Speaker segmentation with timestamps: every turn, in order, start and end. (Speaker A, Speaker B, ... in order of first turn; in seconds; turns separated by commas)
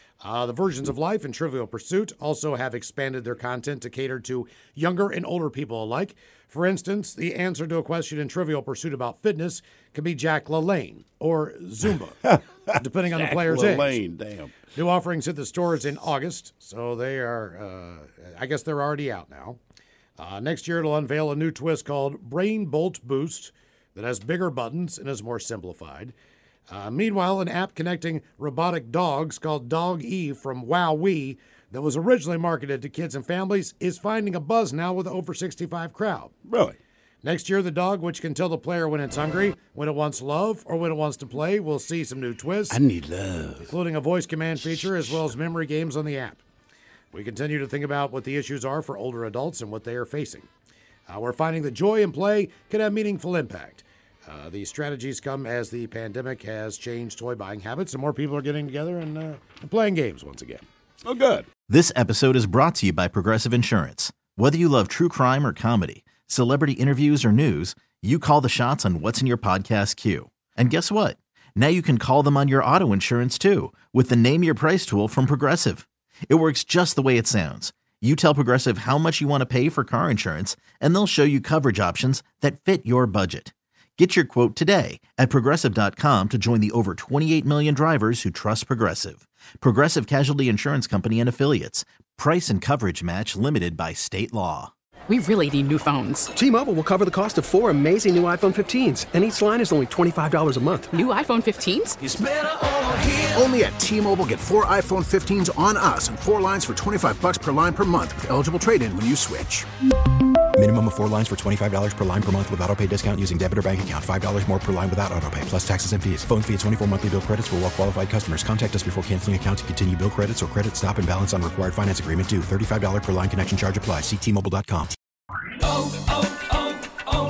Speaker A: 0.2-12.2, Speaker B: 12.2-14.6, Speaker A: 12.8-14.0, Speaker A: 14.7-19.6, Speaker A: 20.2-26.1, Speaker A: 26.7-36.3, Speaker B: 36.5-36.8, Speaker A: 37.2-42.8, Speaker B: 42.7-43.7, Speaker A: 43.6-46.4, Speaker B: 44.7-45.2, Speaker A: 47.1-50.5, Speaker A: 51.1-60.6, Speaker B: 61.0-61.5, Speaker C: 61.7-94.7, Speaker D: 95.1-96.2, Speaker E: 96.3-100.9, Speaker D: 100.9-102.0, Speaker F: 102.0-109.7, Speaker G: 110.5-124.9